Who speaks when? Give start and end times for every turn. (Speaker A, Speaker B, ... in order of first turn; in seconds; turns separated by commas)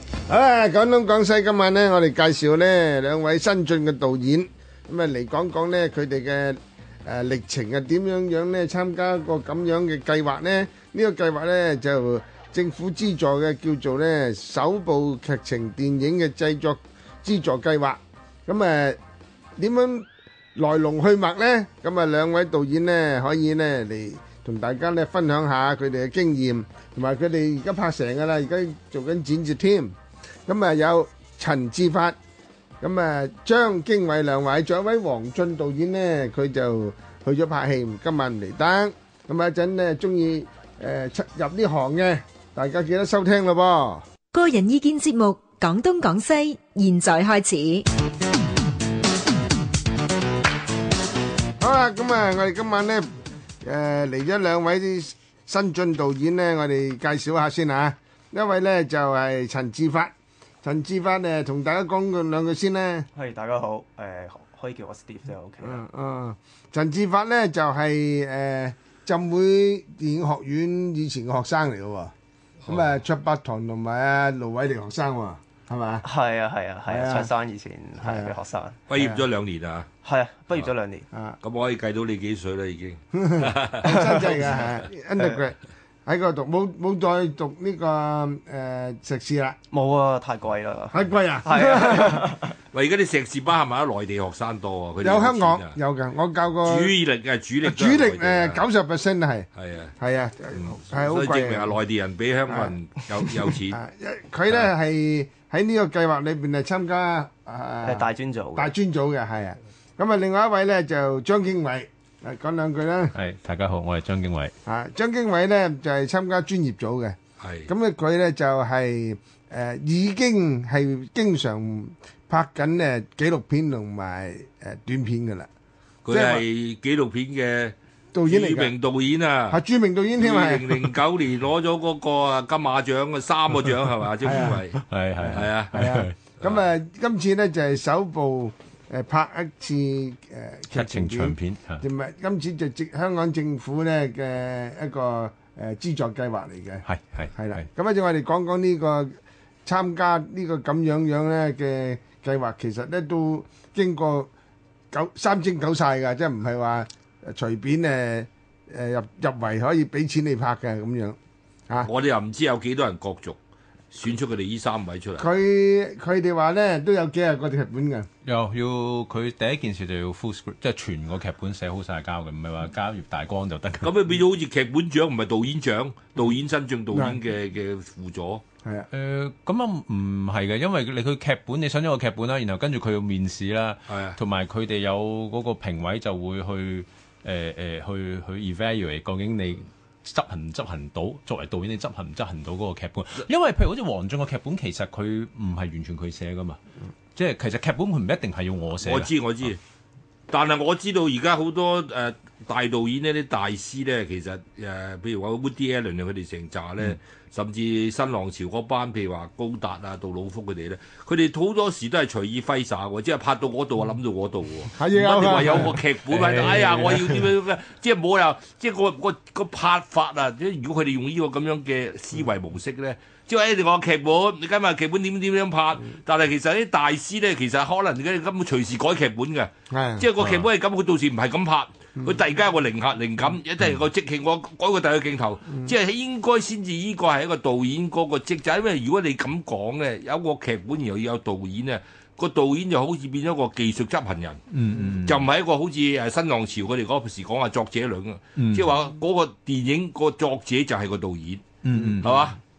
Speaker A: 0.3-19.0, Speaker A: 19.6-29.9, Speaker A: 30.5-32.2, Speaker A: 32.8-44.0, Speaker B: 44.3-47.9, Speaker A: 51.6-53.1, Speaker A: 53.6-60.1, Speaker A: 60.6-63.1, Speaker C: 63.1-65.8, Speaker A: 65.6-72.1, Speaker A: 72.7-76.0, Speaker C: 76.0-78.8, Speaker A: 76.9-77.3, Speaker A: 78.0-78.3, Speaker D: 78.9-79.9, Speaker A: 79.0-79.2, Speaker C: 80.0-81.1, Speaker D: 81.4-83.8, Speaker A: 83.1-89.6, Speaker C: 83.8-84.5, Speaker C: 89.7-92.5, Speaker A: 90.9-92.3, Speaker D: 92.7-95.8, Speaker A: 95.0-96.9, Speaker D: 96.6-98.6, Speaker A: 97.6-99.5, Speaker D: 99.5-99.9, Speaker A: 100.0-101.8, Speaker D: 100.5-103.8, Speaker A: 102.5-102.7, Speaker A: 103.4-113.1, Speaker C: 107.8-108.7, Speaker E: 113.1-114.5, Speaker A: 114.6-117.2, Speaker D: 117.4-117.7, Speaker A: 117.7-125.5, Speaker D: 126.0-127.7, Speaker A: 126.1-126.4, Speaker A: 128.1-128.7, Speaker D: 128.2-129.6, Speaker A: 129.5-130.9, Speaker D: 130.2-134.8, Speaker A: 134.2-134.7, Speaker E: 134.8-136.1, Speaker A: 135.2-154.3, Speaker D: 135.3-135.8, Speaker E: 140.7-141.8, Speaker E: 146.8-147.7, Speaker A: 154.9-161.2, Speaker D: 161.8-163.4, Speaker D: 163.9-165.3, Speaker A: 165.2-168.1, Speaker E: 168.2-173.9, Speaker D: 173.8-178.4, Speaker A: 176.9-177.2, Speaker E: 178.9-196.6, Speaker D: 183.9-184.2, Speaker E: 197.1-199.1, Speaker D: 198.8-199.6, Speaker D: 200.3-244.4, Speaker A: 214.7-215.8, Speaker E: 216.1-217.1, Speaker A: 229.7-230.1, Speaker E: 230.2-230.4, Speaker E: 244.5-245.3, Speaker D: 245.0-251.4, Speaker E: 248.3-248.7, Speaker E: 251.6-252.2, Speaker D: 252.0-252.4